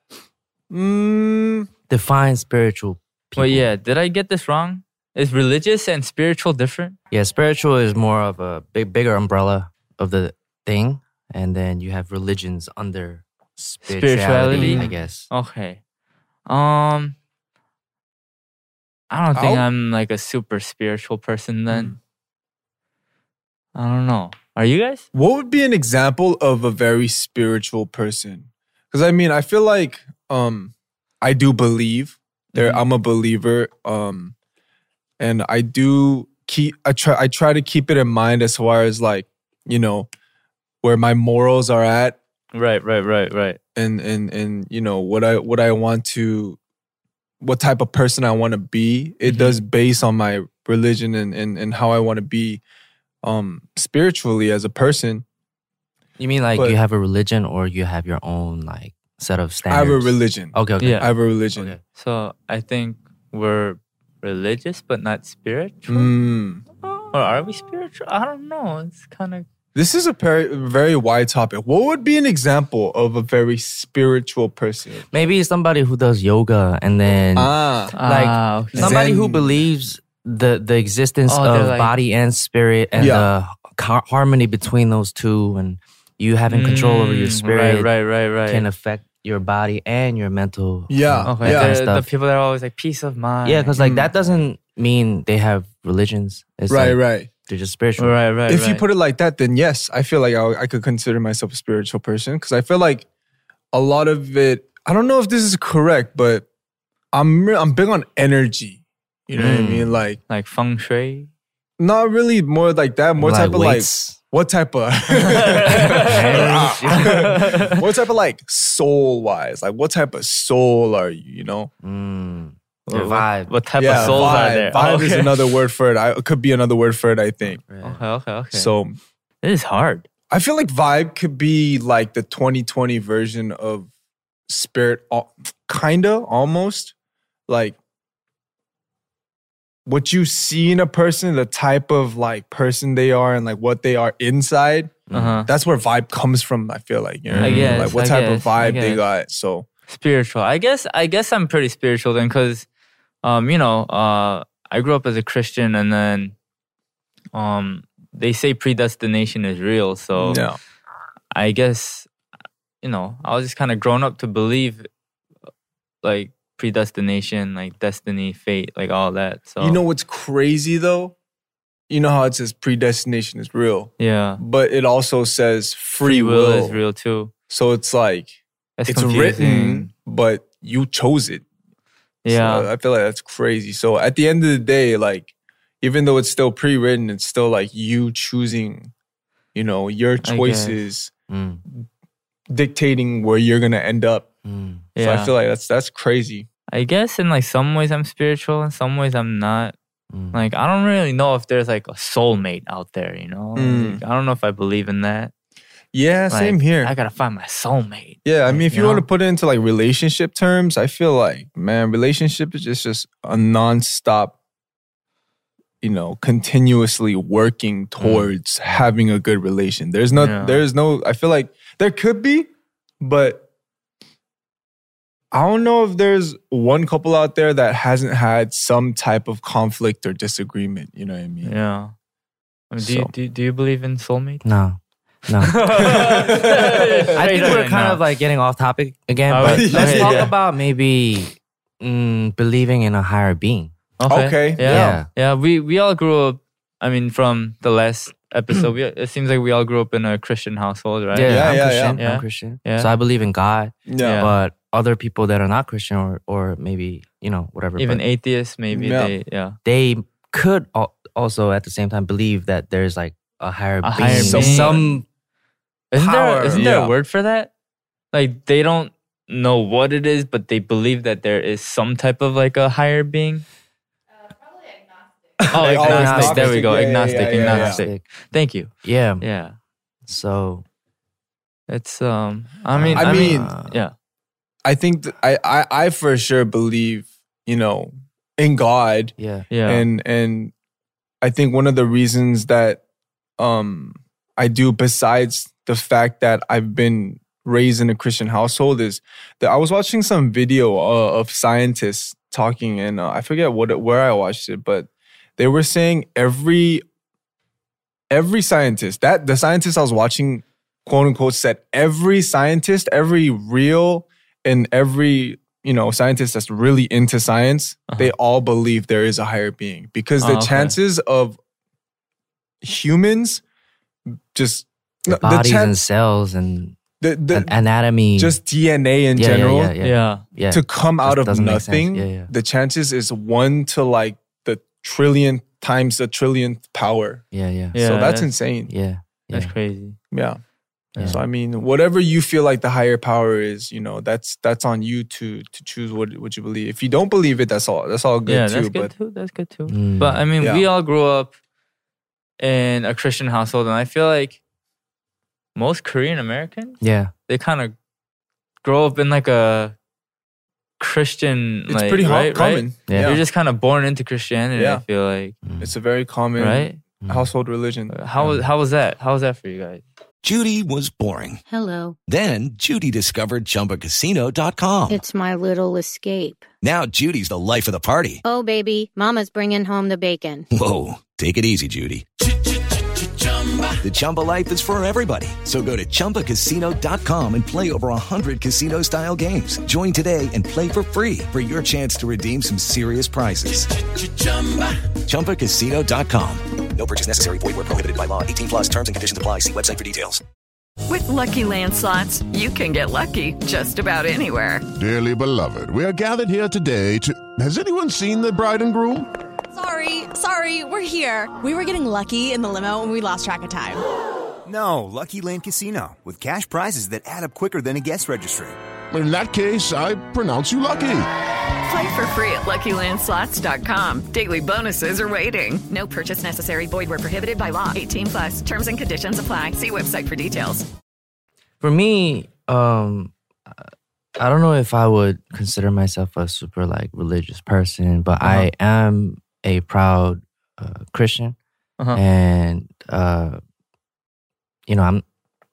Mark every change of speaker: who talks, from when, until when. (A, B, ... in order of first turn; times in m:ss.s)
0:00.7-0:01.7 A
0:01.9-0:03.7 B
0:03.4-0:07.0 C
0:07.1-0:15.3 B
0:13.8-0:15.8 C
0:14.5-0:15.0 A
0:16.5-0:17.1 C
0:19.1-0:21.9 C
0:19.3-0:19.7 A
0:21.7-0:22.0 A
0:23.7-0:25.1 C
0:25.1-0:34.3 A
0:32.5-0:32.8 C
0:35.2-0:40.1 A
0:40.8-0:42.2 A
0:42.5-0:43.6 C
0:43.8-0:46.6 A
0:47.4-0:52.6 A
0:49.2-0:49.6 C
0:53.2-0:55.2 A
0:56.2-1:01.8 B
0:59.7-1:01.8 A
1:00.8-1:01.1 C
1:02.0-1:06.1 C
1:05.9-1:06.6 A
1:07.1-1:09.4 C
1:09.7-1:15.0 A
1:15.1-1:27.9 B
1:17.4-1:17.9 A
1:17.9-1:19.0 C
1:18.7-1:19.6 A
1:21.3-1:21.9 C
1:23.0-1:23.3 A
1:26.5-1:28.6 C
1:28.5-1:32.1 B
1:30.9-1:31.8 A
1:31.2-1:33.8 C
1:33.4-1:38.2 B
1:33.8-1:34.1 A
1:36.7-1:37.3 A
1:38.0-1:38.8 C
1:38.5-1:43.0 A
1:43.7-1:46.5 A
1:47.1-1:50.2 A
1:49.4-1:50.0 B
1:50.3-1:51.3 C
1:51.8-2:01.7 A
1:53.2-1:54.2 B
1:55.4-1:57.8 C
1:55.7-1:57.6 B
2:01.8-2:04.5 B
2:02.9-2:05.5 C
2:03.8-2:07.6 A
2:07.5-2:08.0 B
2:07.8-2:08.7 C
2:08.5-2:09.0 A
2:09.4-2:10.1 C
2:10.3-2:13.9 A
2:14.5-2:16.9 A
2:17.5-2:17.8 A
2:19.8-2:29.7 A
2:25.1-2:25.4 B
2:25.1-2:25.5 C
2:27.3-2:27.9 B
2:27.4-2:29.0 C
2:29.9-2:32.6 C
2:33.2-2:36.3 C
2:37.3-2:40.4 C
2:40.2-2:40.6 A
2:41.3-2:42.1 C
2:42.8-2:44.9 C
2:46.0-2:49.8 C
2:49.6-2:51.1 A
2:51.9-2:56.8 A
2:54.0-2:54.4 C
2:56.0-2:57.3 C
2:57.5-3:01.4 A
2:58.8-2:59.9 C
3:02.2-3:02.7 C
3:02.2-3:08.9 A
3:09.5-3:11.1 A
3:10.2-3:10.8 C
3:11.3-3:11.6 B
3:12.5-3:14.2 A
3:14.4-3:14.9 B
3:15.0-3:15.3 C
3:15.0-3:16.5 A
3:16.7-3:19.7 C
3:20.1-3:20.4 B
3:20.3-3:25.3 C
3:23.6-3:24.0 A
3:25.9-3:26.9 A
3:26.3-3:29.0 C
3:28.2-3:34.4 A
3:35.8-3:42.5 A
3:38.0-3:38.2 C
3:40.2-3:40.6 C
3:43.0-3:43.4 A
3:45.3-3:51.5 A
3:51.4-3:51.9 C
3:52.7-3:54.4 C
3:52.8-3:53.1 A
3:54.4-3:56.6 B
3:55.4-3:58.0 C
3:55.8-3:57.6 A
3:57.1-4:03.7 B
3:59.3-4:00.3 C
3:59.3-4:00.3 A
4:04.0-4:12.9 C
4:04.0-4:05.0 A
4:04.6-4:05.1 B
4:11.1-4:18.0 B
4:11.2-4:12.0 A
4:13.9-4:14.3 A
4:14.0-4:14.3 C
4:17.8-4:19.6 C
4:18.7-4:19.1 A
4:19.6-4:25.0 B
4:23.8-4:24.8 C
4:24.0-4:24.9 A
4:25.9-4:27.5 C
4:25.9-4:26.7 B
4:26.5-4:27.0 A
4:28.1-4:33.4 C
4:35.4-4:37.8 A
4:35.5-4:39.6 C
4:35.6-4:38.0 B
4:38.8-4:39.2 B
4:40.0-4:40.6 B
4:41.7-4:43.9 C
4:42.7-4:43.8 B
4:42.9-4:43.5 A
4:44.6-4:50.5 A
4:49.2-4:49.5 B
4:49.5-4:49.8 C
4:51.2-4:52.8 A
4:53.4-5:06.8 A
5:08.1-5:21.4 A
5:20.2-5:20.8 C
5:22.6-5:23.4 A
5:24.3-5:25.8 A
5:25.1-5:28.4 B
5:27.0-5:27.5 A
5:28.2-5:29.7 A
5:29.2-5:32.3 B
5:29.8-5:30.2 C
5:30.5-5:37.2 A
5:37.3-5:37.8 B
5:37.7-5:38.3 C
5:37.8-5:38.7 A
5:38.7-5:39.5 B
5:39.3-5:40.0 C
5:40.1-5:40.4 A
5:41.0-5:41.2 B
5:41.0-5:48.9 A
5:48.2-5:51.3 C
5:49.7-5:50.2 B
5:50.4-5:50.6 A
5:52.4-5:54.4 C
5:55.5-5:57.7 C
5:56.8-5:57.1 B
5:58.6-5:59.7 C
6:00.8-6:05.4 C
6:01.7-6:03.2 A
6:02.9-6:03.2 B
6:04.5-6:04.8 A
6:05.4-6:05.7 B
6:05.6-6:08.0 A
6:06.4-6:06.8 C
6:07.0-6:07.3 B
6:07.9-6:09.8 C
6:10.2-6:11.4 D
6:11.5-6:12.0 E
6:12.1-6:15.0 D
6:14.9-6:16.4 E
6:16.6-6:18.2 D
6:18.2-6:20.4 E
6:20.5-6:22.0 D
6:23.8-6:33.8 D
6:35.0-6:40.2 D
6:40.9-6:44.6 F
6:44.7-6:49.1 G
6:49.5-6:53.8 H
6:54.4-6:58.6 I
6:58.9-7:01.1 G
7:01.6-7:10.7 F
7:11.6-7:21.4 B
7:21.9-7:23.4 B
7:24.7-7:25.0 B